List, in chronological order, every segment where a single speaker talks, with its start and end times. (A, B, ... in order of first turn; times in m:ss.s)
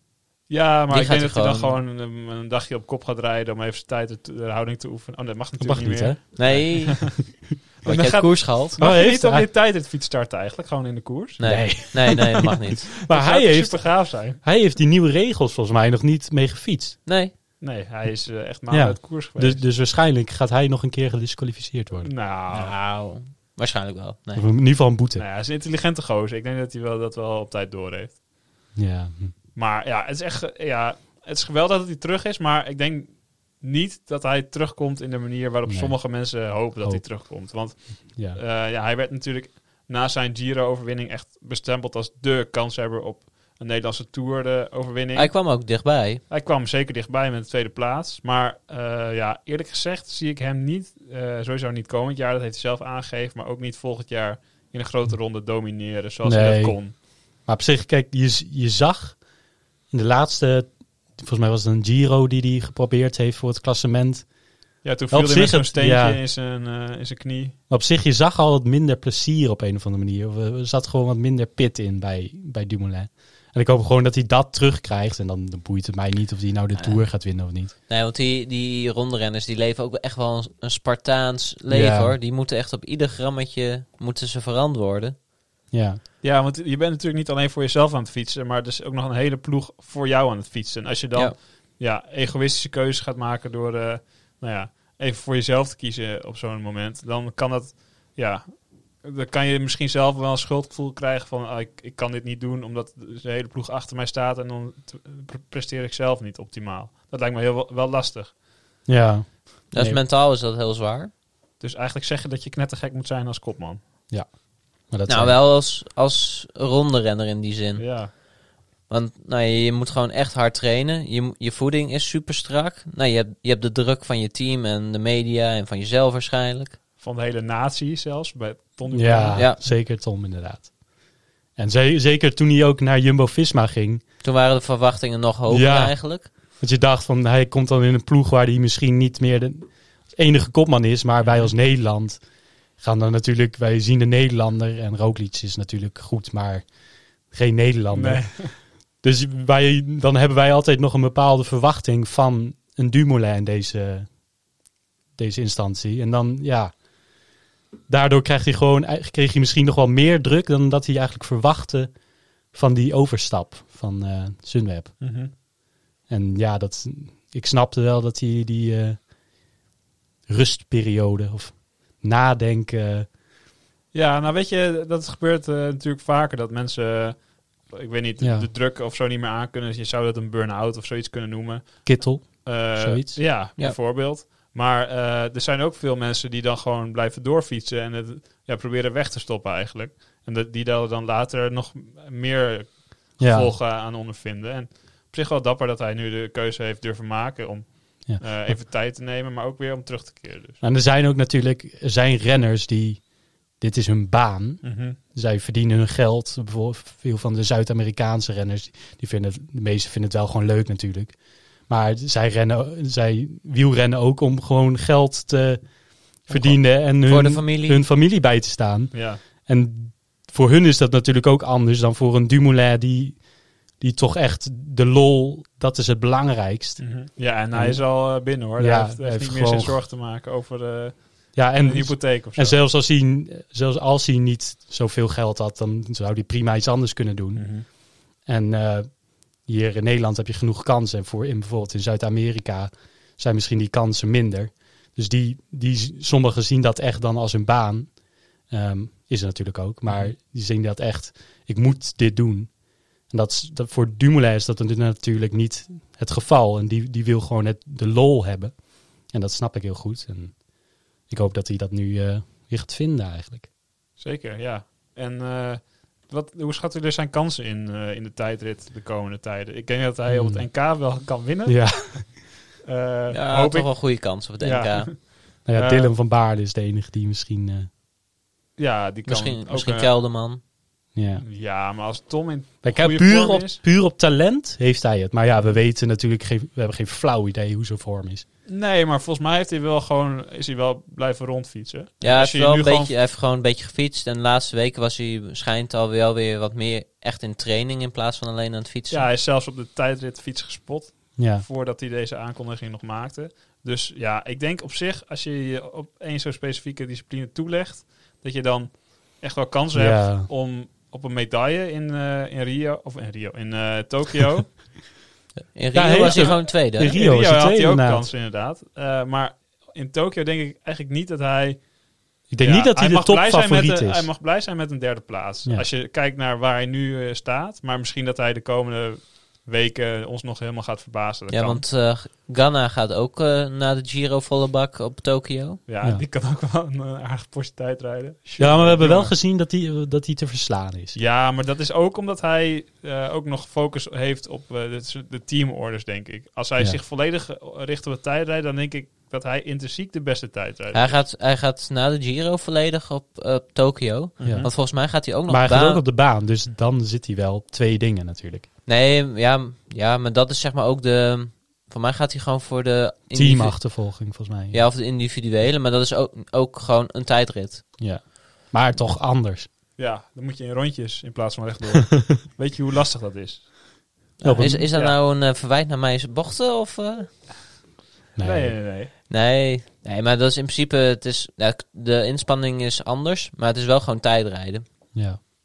0:00.5-0:07.2 A
0:00.9-0:01.8 B
0:05.6-0:06.8 C
0:06.4-0:07.2 B
0:07.8-0:12.1 A
0:07.8-0:08.8 B
0:08.8-0:09.5 C
0:11.4-0:12.9 B
0:11.4-0:12.5 C
0:13.0-0:17.0 C
0:13.1-0:14.4 A
0:17.1-0:17.3 B
0:17.6-0:19.6 A
0:18.7-0:22.1 C
0:22.0-0:22.7 A
0:22.5-0:24.5 B
0:24.4-0:25.2 C
0:25.2-0:28.2 A
0:28.8-0:29.3 C
0:29.6-0:45.4 A
0:35.7-0:37.0 C
0:38.1-0:38.4 C
0:45.2-0:46.2 B
0:46.3-0:56.9 A
0:56.2-0:56.8 C
0:57.4-0:59.2 C
0:59.9-1:04.3 C
1:04.8-1:07.6 A
1:05.1-1:06.2 C
1:07.7-1:17.7 C
1:17.9-1:25.2 B
1:21.7-1:22.2 C
1:25.7-1:26.0 C
1:26.2-1:48.3 A
1:48.9-1:50.0 C
1:49.7-1:51.1 B
1:51.6-1:53.8 A
1:54.9-1:55.4 C
1:55.1-1:57.8 B
1:57.8-1:58.1 A
1:58.9-2:06.8 B
2:07.0-2:09.4 A
2:08.9-2:10.7 C
2:11.6-2:14.0 C
2:14.2-2:16.3 B
2:15.5-2:16.0 C
2:16.6-2:22.2 C
2:21.2-2:21.5 A
2:22.8-2:26.7 C
2:27.3-2:28.2 C
2:27.9-2:28.5 A
2:29.0-2:34.1 C
2:35.2-2:36.7 C
2:37.9-2:41.9 C
2:42.5-2:44.9 C
2:45.0-2:45.3 A
2:46.1-2:49.0 C
2:50.3-2:53.1 C
2:53.9-3:20.6 A
2:58.2-2:58.5 C
3:01.8-3:03.2 C
3:13.2-3:13.5 C
3:18.1-3:18.5 C
3:20.6-3:23.0 C
3:23.6-3:31.2 C
3:24.6-3:25.0 A
3:31.7-3:35.6 C
3:36.2-3:43.2 C
3:36.3-3:36.6 A
3:37.0-3:37.8 B
3:38.9-3:39.2 A
3:43.8-3:46.9 C
3:46.8-3:52.6 A
3:47.5-3:49.8 C
3:51.4-3:57.5 C
3:57.4-3:57.6 A
3:58.2-4:07.9 C
4:08.5-4:12.5 C
4:13.1-4:18.5 C
4:19.1-4:20.4 C
4:21.1-4:23.5 C
4:24.0-4:32.1 A
4:30.1-4:30.5 C
4:31.5-4:32.2 C
4:32.6-4:35.9 A
4:33.1-4:34.9 B
4:35.4-4:37.7 C
4:38.6-4:39.9 A
4:39.1-4:40.4 B
4:40.9-4:41.2 C
4:41.2-4:43.6 A
4:42.6-4:48.2 C
4:48.5-4:52.9 A
4:52.0-4:59.1 B
4:58.9-5:14.7 A
5:01.2-5:01.4 C
5:09.7-5:10.3 C
5:15.5-5:17.0 B
5:15.7-5:18.1 C
5:15.9-5:21.6 A
5:22.3-5:24.1 C
5:22.4-5:31.6 A
5:31.3-5:35.6 B
5:35.7-5:39.1 A
5:38.4-5:41.0 C
5:41.0-5:51.0 A
5:50.7-5:55.8 B
5:54.2-5:54.5 A
5:54.2-5:54.6 C
5:55.3-5:58.5 C
5:58.7-6:03.8 B
6:03.1-6:04.6 C
6:04.5-6:07.6 B
6:07.8-6:09.5 C
6:09.8-6:13.5 A
6:14.2-6:17.1 B
6:14.2-6:14.7 C
6:18.2-6:18.6 C
6:18.2-6:18.9 A
6:19.1-6:24.6 B
6:24.9-6:25.2 C